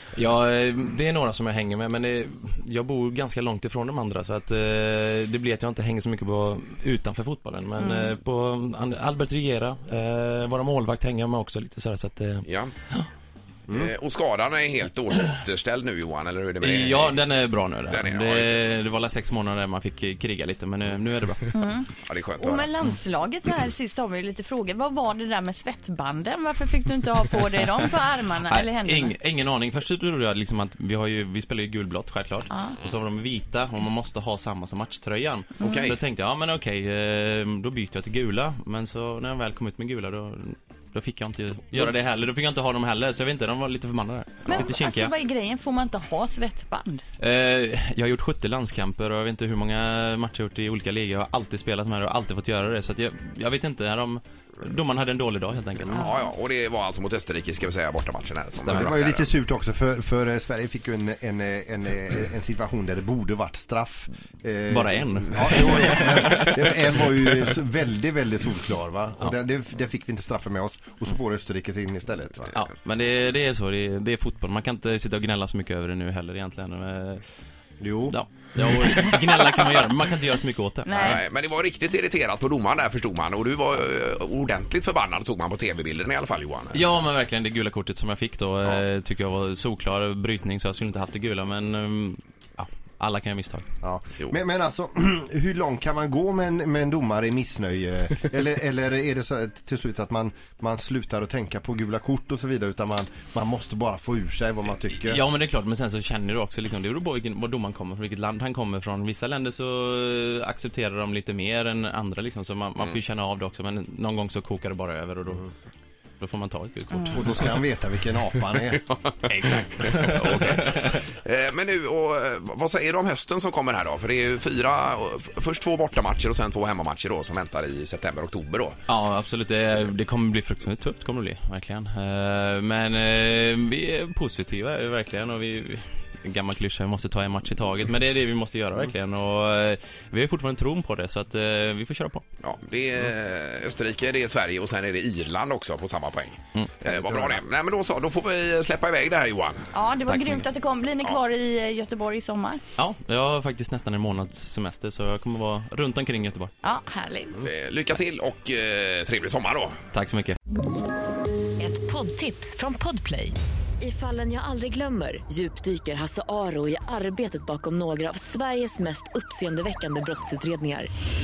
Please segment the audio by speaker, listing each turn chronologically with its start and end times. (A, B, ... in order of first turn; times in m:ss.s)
0:00.2-0:13.1 A
0:07.8-0:08.1 B
0:12.4-0:12.7 C
0:13.7-0:17.2 C
0:16.6-0:21.6 A
0:17.9-0:18.6 C
0:21.5-0:29.2 B
0:22.0-0:22.7 C
0:28.4-0:45.1 A
0:35.6-0:35.8 B
0:35.6-0:36.0 C
0:44.4-0:47.0 B
0:47.2-0:56.1 A
0:55.9-0:59.3 C
0:56.0-0:56.3 B
0:58.6-0:59.0 A
0:58.7-1:12.6 D
1:04.7-1:07.0 A
1:12.5-1:17.2 A
1:17.8-1:18.2 D
1:18.1-1:21.2 A
1:20.8-1:21.2 B
1:21.0-1:26.8 C
1:26.7-1:33.6 A
1:33.8-1:45.2 D
1:45.0-1:55.4 A
1:56.2-1:57.6 A
1:56.9-1:57.3 B
1:57.1-1:58.8 D
1:58.8-2:08.8 C
1:59.3-2:00.8 A
2:08.9-2:22.2 A
2:22.4-2:29.7 C
2:26.9-2:27.3 D
2:29.7-2:32.6 B
2:30.1-2:30.4 A
2:32.8-2:36.5 A
2:36.6-2:37.4 B
2:37.4-2:39.7 C
2:39.9-2:40.4 A
2:41.6-2:50.9 E